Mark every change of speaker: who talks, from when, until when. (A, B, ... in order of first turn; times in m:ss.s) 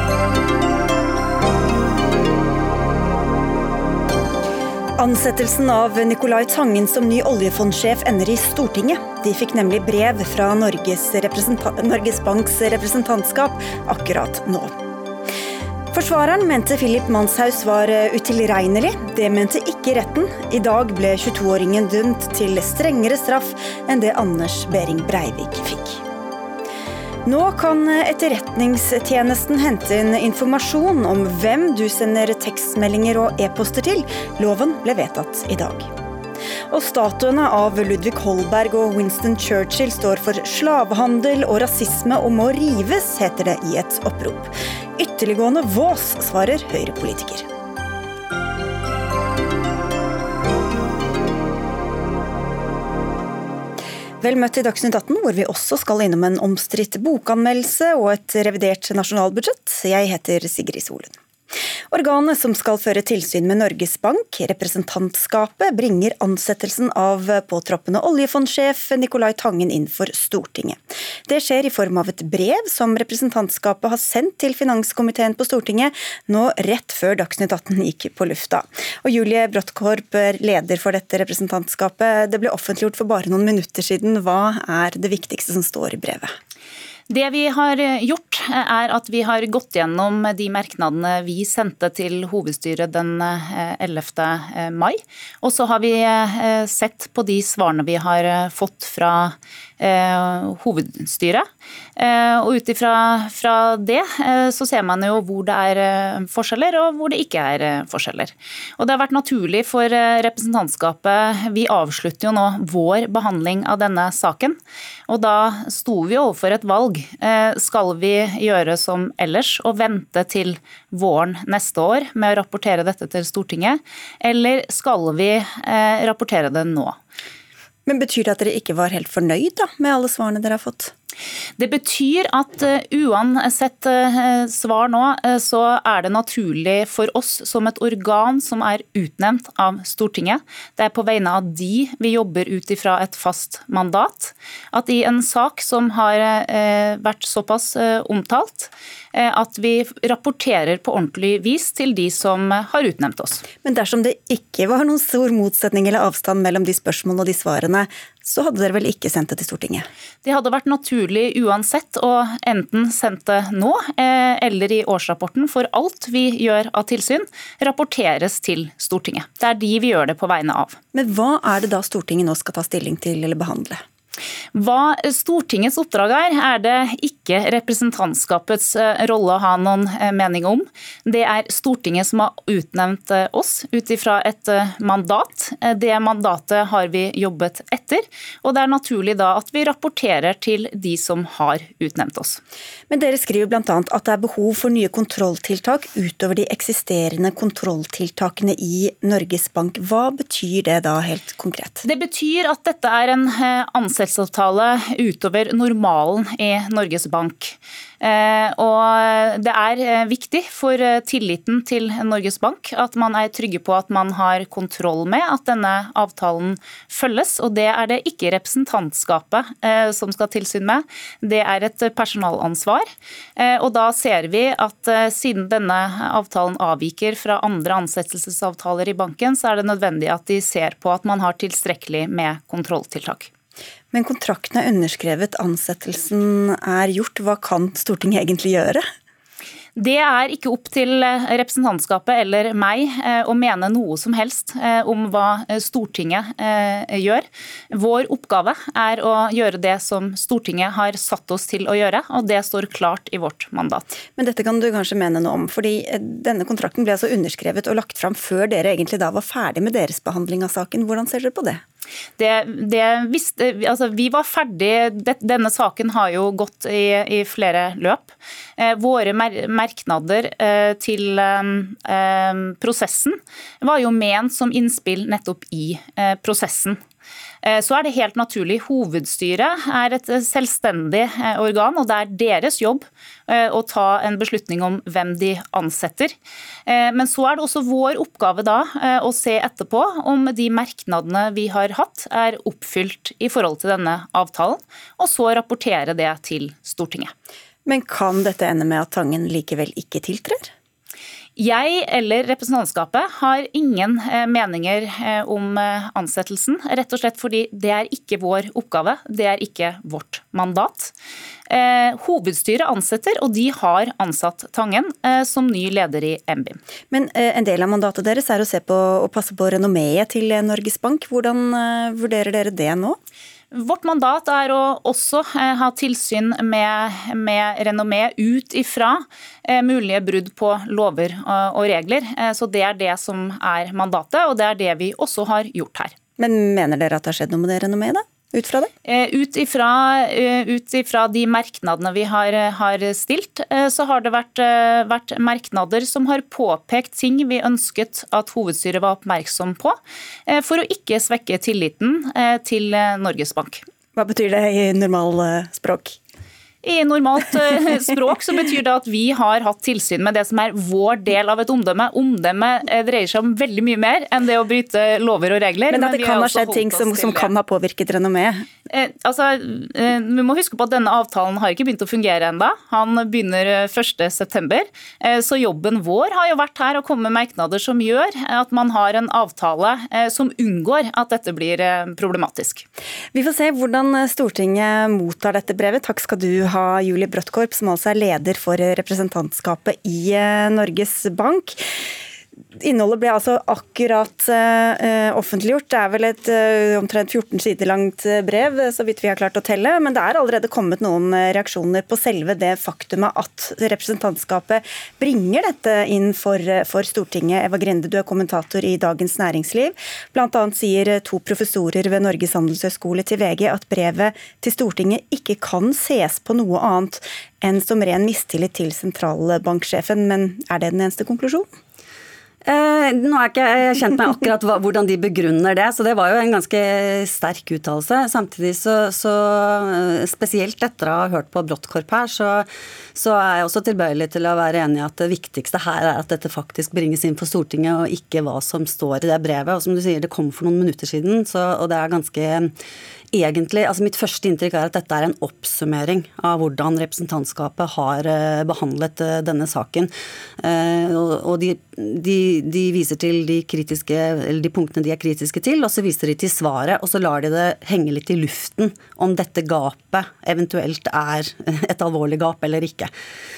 0:05.0-0:14.7 A
0:15.9-0:26.0 A
0:27.2-0:35.9 A
0:36.7-0:47.5 A
0:54.2-1:01.2 A
1:01.9-1:26.3 A
1:27.1-2:07.0 B
2:07.9-2:10.9 A
2:11.6-2:33.4 B
2:33.6-2:39.9 A
2:40.2-2:50.8 B
2:50.9-2:53.8 A
2:54.5-3:12.4 B
3:12.9-3:21.8 A
3:21.8-3:53.3 B
3:53.9-3:58.9 A
3:59.8-4:13.9 B
4:14.2-4:21.6 A
4:22.2-4:36.8 B
4:37.4-4:46.2 B
4:46.7-4:57.1 B
4:57.7-5:00.5 A
5:01.4-5:10.9 B
5:11.5-5:16.6 B
5:16.9-5:23.0 A
5:23.5-5:35.9 B
5:36.2-5:38.7 A
5:38.8-5:53.6 B
5:54.0-5:56.0 A
5:56.6-6:07.3 B
6:05.7-6:08.4 A
6:08.7-6:22.6 B
6:23.1-6:31.6 A
6:32.6-7:01.5 A
7:02.4-7:22.5 C
7:23.1-7:42.9 C